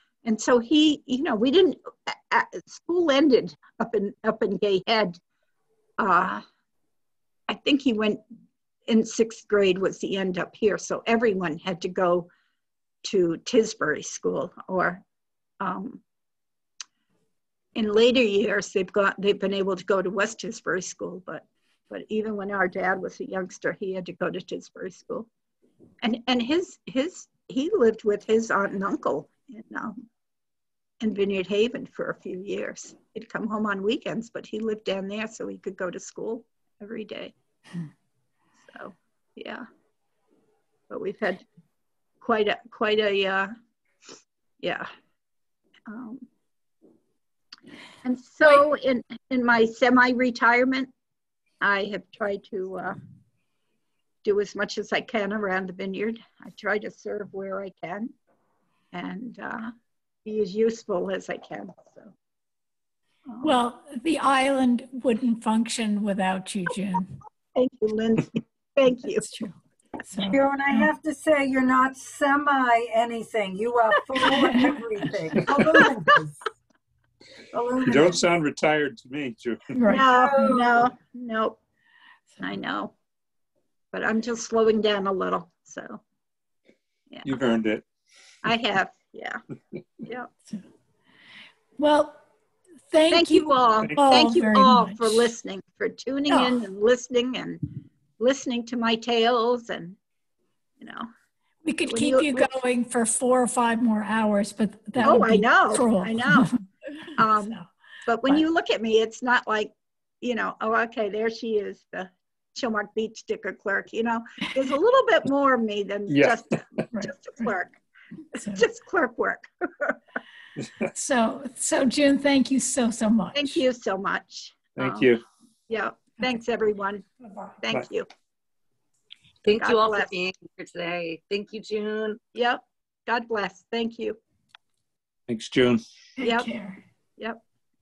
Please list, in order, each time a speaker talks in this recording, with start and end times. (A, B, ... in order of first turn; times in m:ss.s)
0:00.2-0:05.2 A
0:06.0-0:06.4 A
0:07.5-0:08.2 A
0:08.9-0:12.3 A
0:13.0-0:15.0 A
0:15.6-0:16.0 A
0:17.7-0:25.3 A
0:26.0-0:29.9 A
0:31.0-0:37.3 A
0:38.6-0:39.6 A
0:40.9-0:41.4 A
0:42.2-0:43.5 A
0:44.6-0:44.9 A
0:45.9-0:46.2 A
0:48.0-0:50.9 A
0:51.6-0:53.0 A
0:54.2-0:58.1 A
0:58.9-0:59.7 A
1:00.2-1:02.1 A
1:03.3-1:03.5 A
1:03.4-1:07.1 B
1:07.5-1:09.2 A
1:09.2-1:10.9 B
1:10.2-1:16.3 C
1:14.2-1:14.8 B
1:17.5-1:18.2 C
1:17.8-1:19.7 D
1:19.7-1:20.1 B
1:19.9-1:21.6 A
1:19.9-1:20.8 C
1:22.4-1:22.9 A
1:23.9-1:26.0 A
1:27.2-1:27.8 D
1:28.4-1:29.4 A
1:31.8-1:32.2 B
1:32.9-1:35.3 B
1:33.1-1:37.6 A
1:36.3-1:36.6 B
1:38.2-1:40.0 A
1:40.8-1:41.1 A
1:41.6-1:47.7 B
1:41.8-1:42.5 A
1:45.0-1:46.5 A
1:47.2-1:47.5 A
1:48.0-1:57.8 A
1:56.1-1:56.4 D
1:56.9-1:57.4 B
1:58.3-1:58.6 B
1:58.5-2:00.0 A
2:00.9-2:03.6 B
2:03.3-2:05.1 A
2:04.8-2:05.2 D
2:05.7-2:07.1 A
2:07.6-2:08.0 A
2:09.4-2:12.2 E
2:09.5-2:10.1 A
2:12.3-2:14.2 A
2:15.3-2:15.8 D
2:16.2-2:16.8 B
2:16.2-2:16.5 A